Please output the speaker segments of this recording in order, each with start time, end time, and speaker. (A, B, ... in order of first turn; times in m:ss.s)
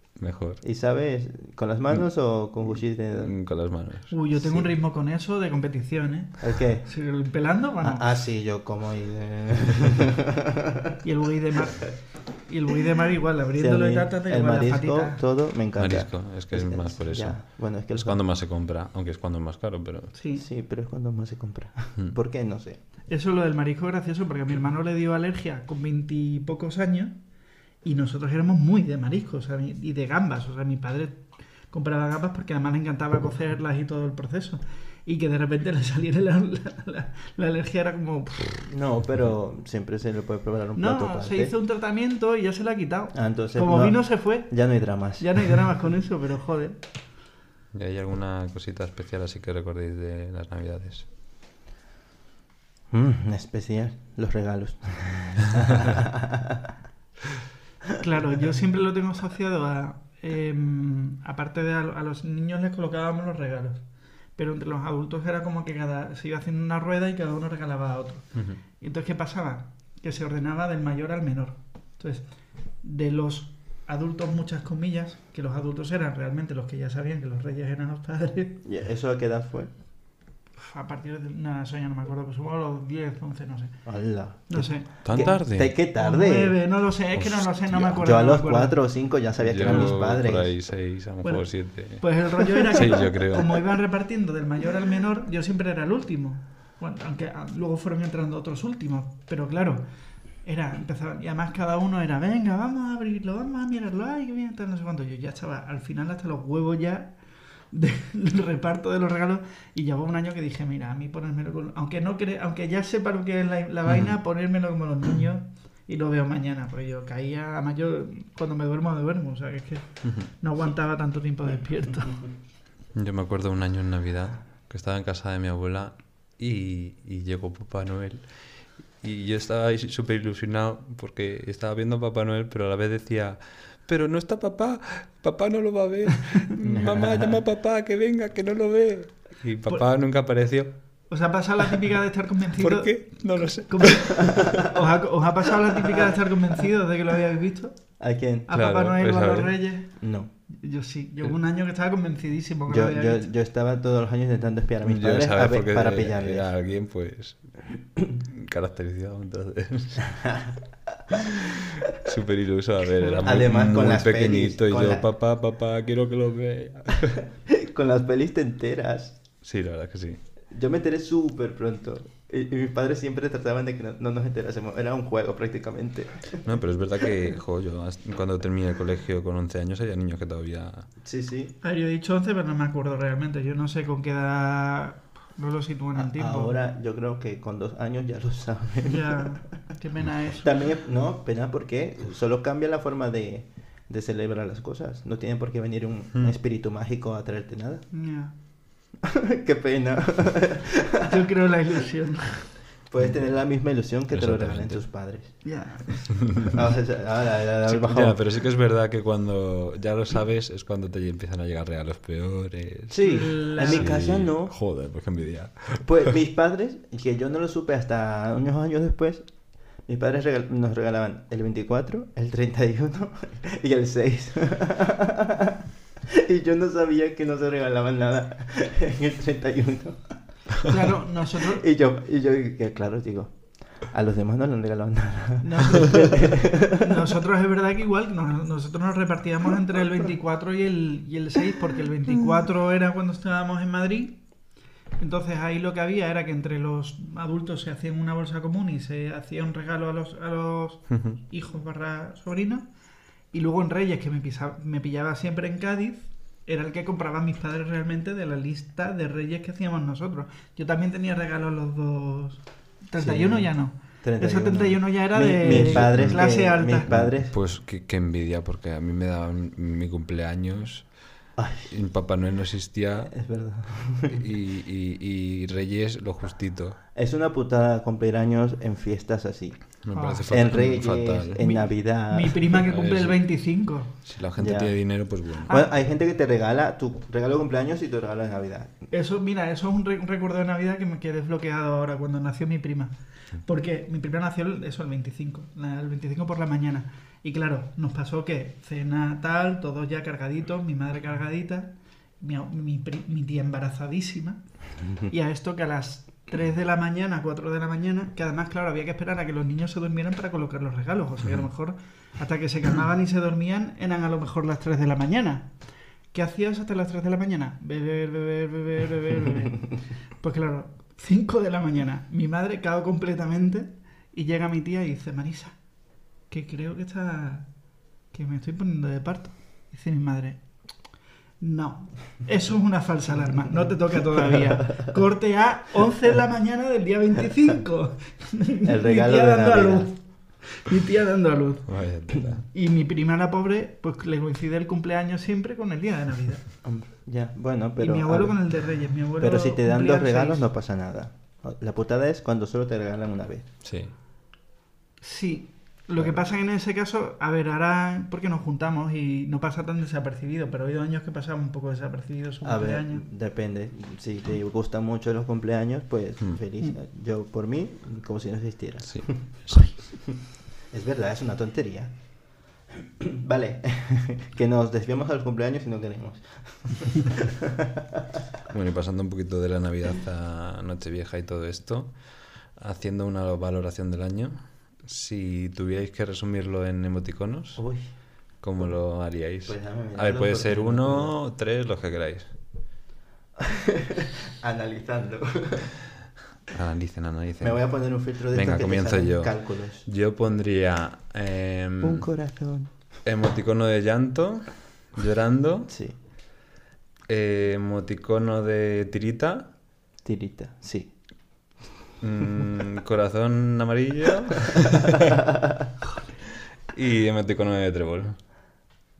0:00.2-0:00.6 A
0:00.6-0:03.3 B
0:03.2-0:04.1 A
0:04.1-0:08.1 C
0:04.4-0:04.7 B
0:06.4-0:06.9 B
0:07.8-0:10.9 B
0:11.0-0:15.2 C
0:13.5-0:18.2 B
0:15.8-0:20.1 A
0:20.1-0:20.4 C
0:20.3-0:22.8 B
0:23.1-0:27.2 C
0:27.8-0:38.7 C
0:38.6-0:41.5 B
0:40.8-0:46.8 C
0:43.1-0:45.6 B
0:47.7-0:51.1 A
0:52.9-0:56.7 B
0:58.0-1:03.8 C
1:04.4-1:12.2 C
1:12.8-1:18.6 C
1:18.6-1:19.7 B
1:20.6-1:23.8 C
1:23.8-1:26.6 B
1:24.5-1:28.8 C
1:25.0-1:25.7 A
1:27.1-1:27.8 A
1:27.7-1:30.5 B
1:29.4-1:32.1 A
1:29.6-1:30.0 C
1:31.2-1:39.8 C
1:32.6-1:33.6 A
1:40.4-1:47.1 C
1:47.7-2:02.3 C
2:02.9-2:20.7 A
2:16.6-2:17.4 B
2:21.1-2:27.9 C
2:22.6-2:24.5 A
2:25.8-2:26.2 B
2:28.0-2:28.5 B
2:28.5-2:33.3 C
2:28.5-2:29.5 A
2:30.0-2:30.3 B
2:32.7-2:36.5 B
2:34.8-2:37.6 A
2:38.2-2:40.2 A
2:40.2-2:40.5 B
2:41.1-2:47.2 A
2:43.0-2:43.3 C
2:43.2-2:45.0 B
2:47.5-2:49.2 B
2:49.4-2:50.2 A
2:50.5-2:56.4 B
2:56.4-3:00.9 A
3:01.0-3:01.5 B
3:01.6-3:06.6 C
3:06.0-3:09.3 B
3:08.8-3:10.7 C
3:10.4-3:17.8 B
3:17.9-3:18.3 C
3:19.0-3:21.2 B
3:21.0-3:22.5 C
3:22.9-3:25.4 B
3:24.1-3:24.8 A
3:25.4-3:26.5 C
3:26.4-3:28.2 B
3:27.6-3:36.1 A
3:32.9-3:34.5 B
3:33.0-3:34.0 C
3:35.8-3:39.2 B
3:39.8-3:50.2 B
3:50.6-3:51.6 C
3:51.3-3:57.1 B
3:55.4-4:04.2 C
4:05.0-4:12.6 C
4:10.9-4:11.2 A
4:13.3-4:26.9 C
4:23.0-4:27.4 B
4:25.4-4:26.2 A
4:26.9-4:31.0 A
4:31.4-4:31.7 B
4:31.7-4:33.1 A
4:33.1-4:34.2 B
4:34.1-4:36.8 A
4:36.9-4:42.6 B
4:39.8-4:41.4 A
4:39.9-4:40.3 C
4:41.4-4:43.9 C
4:42.7-4:43.2 A
4:44.0-4:45.5 A
4:44.4-4:44.8 B
4:45.5-4:48.7 B
4:48.9-5:15.5 C
5:16.1-5:25.6 C
5:26.3-5:27.5 C
5:28.1-5:30.4 C
5:31.4-5:41.8 C
5:38.6-5:39.9 B
5:41.7-5:42.4 A
5:42.4-5:46.5 C
5:46.6-5:48.4 B
5:47.8-5:50.4 C
5:49.2-5:53.5 B
5:53.6-5:53.9 A
5:55.0-6:03.0 C
6:02.4-6:10.2 B
6:08.9-6:09.7 A
6:10.7-6:12.2 B
6:12.7-6:18.0 B
6:18.5-6:27.6 A
6:27.6-6:27.9 B
6:28.4-6:32.3 A
6:29.4-6:31.1 B
6:33.4-6:35.7 B
6:36.5-6:37.6 A
6:37.4-6:39.8 B
6:38.3-6:42.1 A
6:41.8-6:42.7 B
6:43.0-6:45.7 A
6:45.7-6:45.9 B
6:47.1-6:49.5 A
6:50.0-6:50.9 B
6:52.0-6:55.1 A
6:56.7-6:58.2 A